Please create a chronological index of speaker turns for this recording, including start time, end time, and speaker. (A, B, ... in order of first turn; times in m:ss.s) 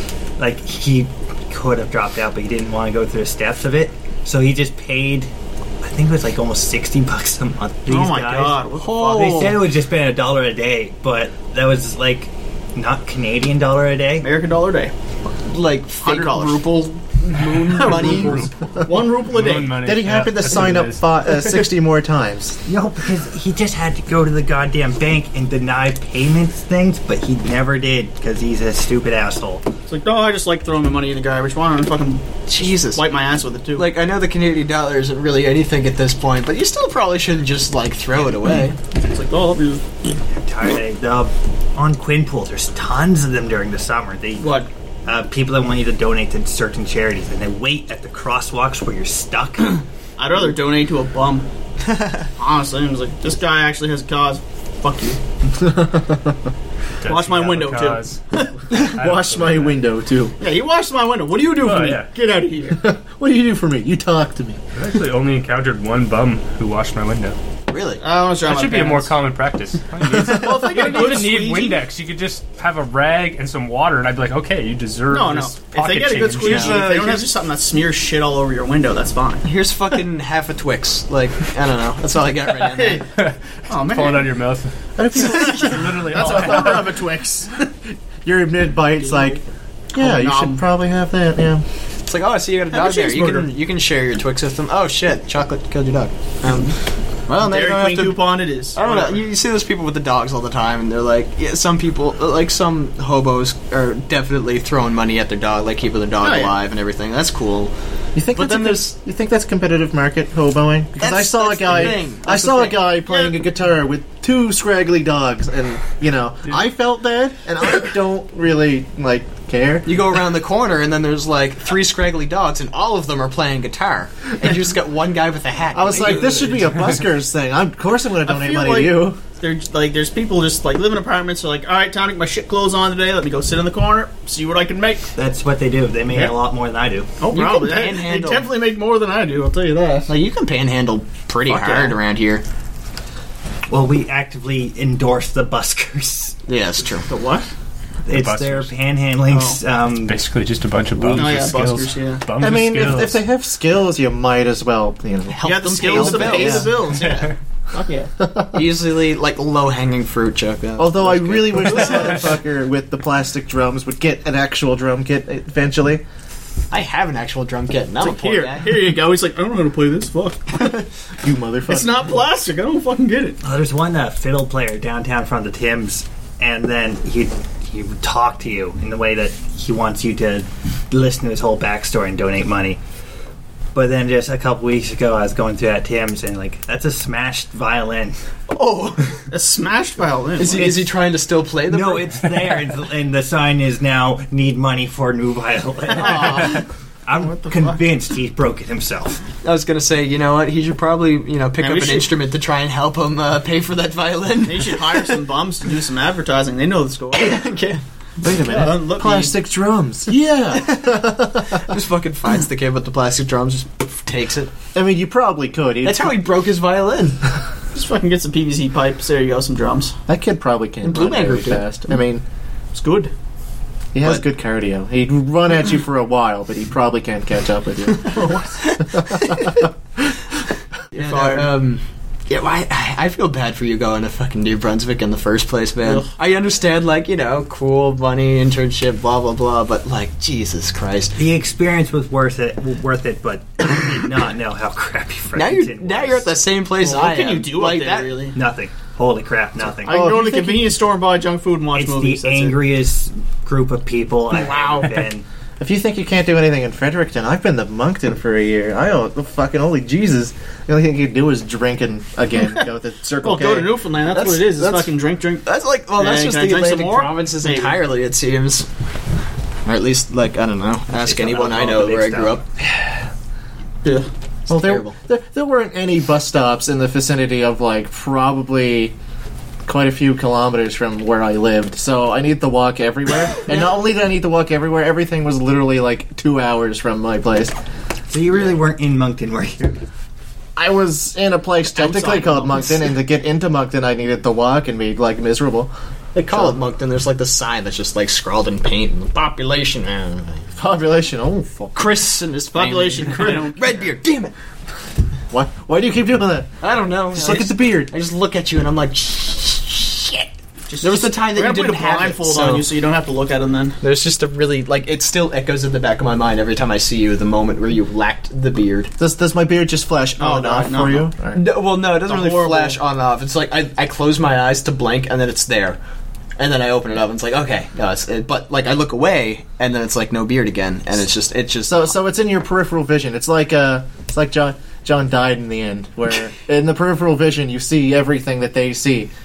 0:00.4-0:05.3 A
0:05.8-0:14.3 A
0:07.9-0:09.6 B
0:08.8-0:09.6 C
0:14.2-0:14.9 B
0:15.4-0:18.5 C
0:16.0-0:19.8 B
0:17.6-0:18.5 D
0:19.2-0:21.0 D
0:19.8-0:22.6 E
0:22.6-0:29.6 A
0:29.9-0:32.3 B
0:32.5-0:33.0 C
0:32.9-0:33.9 B
0:33.8-0:38.7 C
0:38.9-0:39.8 B
0:40.4-0:49.8 A
0:44.4-0:44.7 B
0:50.2-0:51.5 B
0:52.4-0:55.2 B
0:55.6-0:56.4 E
0:57.0-0:58.2 D
0:57.0-0:58.5 B
0:58.7-1:00.3 E
0:58.7-0:59.8 D
1:00.4-1:02.8 B
1:01.6-1:02.1 D
1:02.8-1:04.6 E
1:04.7-1:07.4 D
1:07.7-1:08.0 C
1:08.0-1:09.1 B
1:08.4-1:16.8 D
1:10.1-1:11.8 B
1:15.1-1:19.4 B
1:16.2-1:17.3 C
1:19.4-1:23.0 C
1:22.7-1:23.0 B
1:23.0-1:24.7 D
1:23.7-1:24.3 B
1:25.0-1:26.8 E
1:25.2-1:27.5 B
1:25.2-1:26.8 D
1:28.2-1:29.4 E
1:29.0-1:29.4 B
1:29.9-1:31.6 E
1:30.0-1:30.6 B
1:32.0-1:36.7 C
1:32.7-1:33.5 B
1:36.5-1:36.7 B
1:37.3-1:47.7 C
1:37.3-1:39.2 B
1:46.2-1:46.5 B
1:48.1-1:59.8 E
1:48.3-1:48.9 C
1:51.0-1:52.9 C
1:53.0-1:53.4 B
1:59.8-2:06.5 C
2:05.7-2:09.2 E
2:08.2-2:15.1 B
2:15.2-2:17.1 A
2:16.1-2:16.4 B
2:17.2-2:20.1 B
2:17.3-2:18.5 C
2:20.1-2:22.4 C
2:21.5-2:22.0 B
2:23.7-2:26.4 A
2:26.5-2:27.1 C
2:27.0-2:27.5 B
2:28.0-2:30.2 A
2:28.1-2:28.7 D
2:29.3-2:29.6 B
2:30.0-2:33.2 D
2:30.8-2:31.6 A
2:31.1-2:32.2 B
2:32.4-2:36.8 E
2:35.3-2:36.8 C
2:35.4-2:38.1 B
2:38.2-2:38.6 E
2:38.5-2:42.3 C
2:40.8-2:46.0 E
2:41.7-2:42.1 B
2:46.7-2:48.8 C
2:48.0-2:50.8 B
2:51.2-2:52.0 E
2:51.7-2:53.4 B
2:53.4-3:02.8 A
3:03.7-3:08.2 A
3:08.5-3:09.0 C
3:09.3-3:10.8 B
3:10.4-3:12.2 C
3:11.7-3:19.2 A
3:15.9-3:16.6 B
3:17.2-3:17.8 B
3:19.4-3:25.2 C
3:21.6-3:22.1 B
3:24.4-3:27.4 B
3:27.1-3:27.8 C
3:28.2-3:31.6 E
3:28.4-3:29.3 B
3:30.5-3:34.5 C
3:34.7-3:36.2 E
3:35.8-3:37.2 C
3:37.7-3:40.0 B
3:40.1-3:42.2 E
3:40.8-3:41.8 C
3:42.7-3:43.1 B
3:43.9-3:48.2 E
3:48.0-3:48.7 B
3:48.7-3:49.5 C
3:49.0-3:49.4 E
3:50.9-3:51.5 B
3:50.9-4:01.2 C
3:55.8-3:56.1 B
4:01.2-4:06.3 A
4:05.3-4:08.2 C
4:06.8-4:08.4 B
4:08.3-4:10.1 A
4:09.8-4:10.7 E
4:09.8-4:12.6 B
4:11.7-4:15.2 A
4:15.6-4:23.8 E
4:23.2-4:25.4 B
4:24.1-4:24.9 C
4:25.4-4:28.7 C
4:26.0-4:27.8 B
4:29.6-4:32.4 C
4:31.0-4:32.4 A
4:34.5-4:35.0 C
4:34.5-4:38.9 E
4:39.6-4:47.5 E
4:48.1-4:49.8 A
4:50.6-4:55.7 E
4:51.7-4:52.8 B
4:56.1-5:00.5 C
4:56.3-4:56.5 E
5:00.6-5:02.0 E
5:01.7-5:04.3 C
5:02.5-5:03.7 B
5:05.3-5:06.5 E
5:06.6-5:12.6 C
5:07.1-5:07.9 E
5:10.7-5:13.8 B
5:13.8-5:18.9 C
5:19.0-5:21.4 E
5:20.2-5:21.1 B
5:21.3-5:25.8 C
5:22.0-5:22.8 B
5:26.4-5:31.9 C
5:31.6-5:39.1 E